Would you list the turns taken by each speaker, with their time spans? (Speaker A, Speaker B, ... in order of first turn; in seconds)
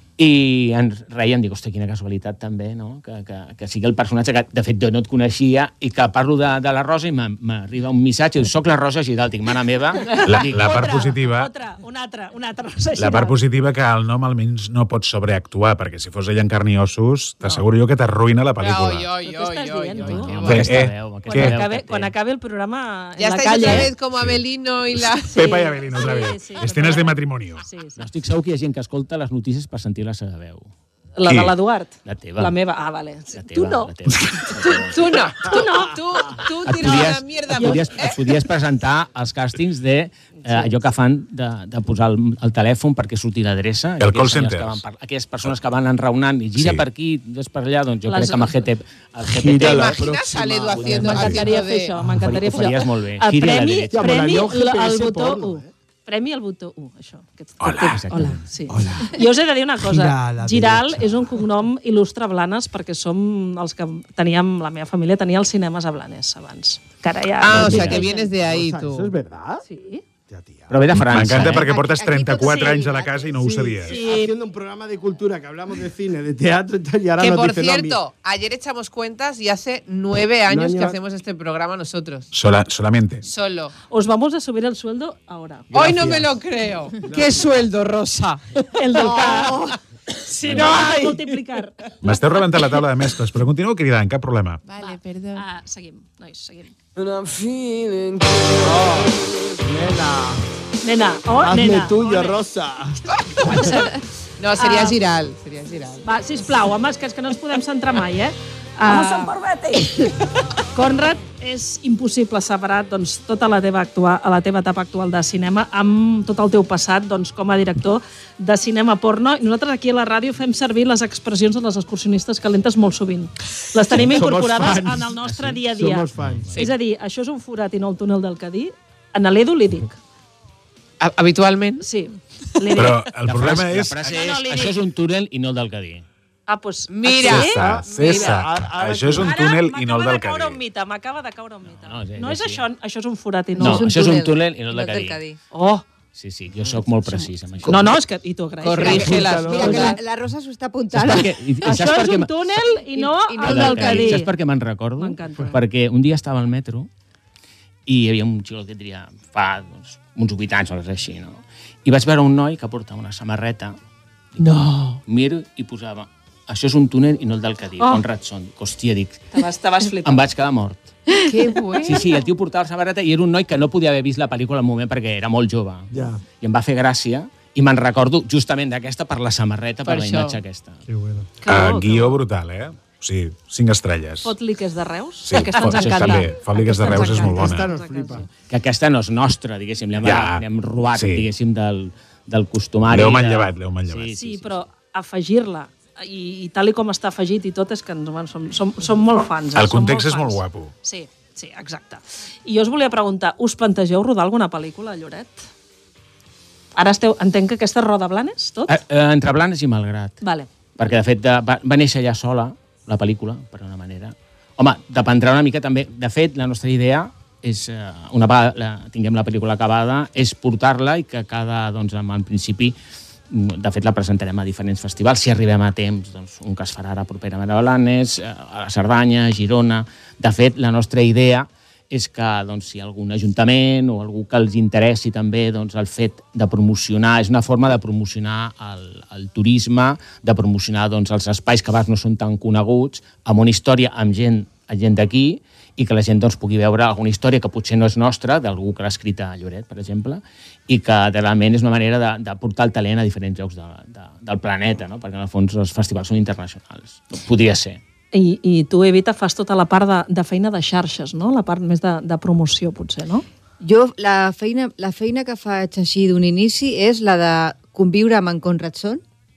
Speaker A: 0.2-10.8, 20.0-22.1, 28.0-30.7, 32.0-32.5, 33.3-35.1, 36.6-50.0, 52.2-54.0, 57.8-58.4, 67.5-68.0, 70.7-71.7, 125.2-125.6, 133.2-136.1, 141.7-142.6, 143.6-145.2, 146.1-147.9, 151.0-152.3, 153.4-156.9, 157.9-163.8, 165.1-169.3, 170.0-170.9, 171.8-175.9, 176.4-180.8, 185.7-186.3, 188.5-194.7, 208.7-210.2, 210.8-222.8, 223.3-257.8
Speaker B: 10.2-11.5, 13.0-19.1, 20.5-21.6, 25.4-27.6, 31.3-31.5, 44.0-44.8, 46.6-46.8, 57.6-58.4, 71.0-74.0, 82.3-83.3, 92.0-94.6, 132.7-134.2, 137.2-140.6, 181.5-184.3, 185.3-187.7, 190.0-191.3, 192.9-194.1, 199.5-200.7
Speaker C: 10.5-13.4, 19.2-20.5, 21.2-24.0, 25.3-28.1, 31.2-33.9, 35.3-36.4, 37.5-37.9, 48.0-48.6, 50.9-68.3, 69.7-70.0, 73.8-74.4, 83.9-85.8, 88.8-89.8, 90.3-91.8, 94.8-96.7, 100.8-102.4, 103.5-103.9, 104.6-105.0, 106.0-109.4, 110.7-130.0, 131.8-133.1, 134.1-134.8, 136.5-138.3, 139.2-144.1, 145.5-145.8, 147.6-150.0, 151.6-154.3, 155.0-155.6, 167.8-168.0, 169.3-170.2, 181.4-182.2, 184.2-188.3, 194.1-205.4, 206.8-208.8, 210.2-210.5, 258.1-263.2
Speaker D: 18.6-20.7, 23.2-25.4, 34.6-38.2, 49.6-52.0, 67.4-69.1, 77.2-82.3, 83.2-83.7, 85.7-89.8, 90.3-91.3, 94.7-95.5, 103.3-106.0, 131.0-131.9, 136.9-138.4, 148.6-150.0, 164.4-165.0, 171.2-172.0, 179.8-180.4
Speaker E: 49.3-51.4, 53.9-55.7, 58.7-59.2, 59.8-61.4, 68.3-69.7, 70.3-70.9, 73.4-78.0, 80.5-81.0, 85.8-86.3, 87.1-87.5, 98.6-100.4, 101.4-103.0, 123.9-125.2, 125.7-126.5, 137.5-139.4, 148.9-149.9, 175.9-176.2, 180.9-181.3, 186.8-188.3
Speaker F: 71.5-73.5, 143.6-145.4, 148.8-151.4, 152.9-154.2, 263.6-269.0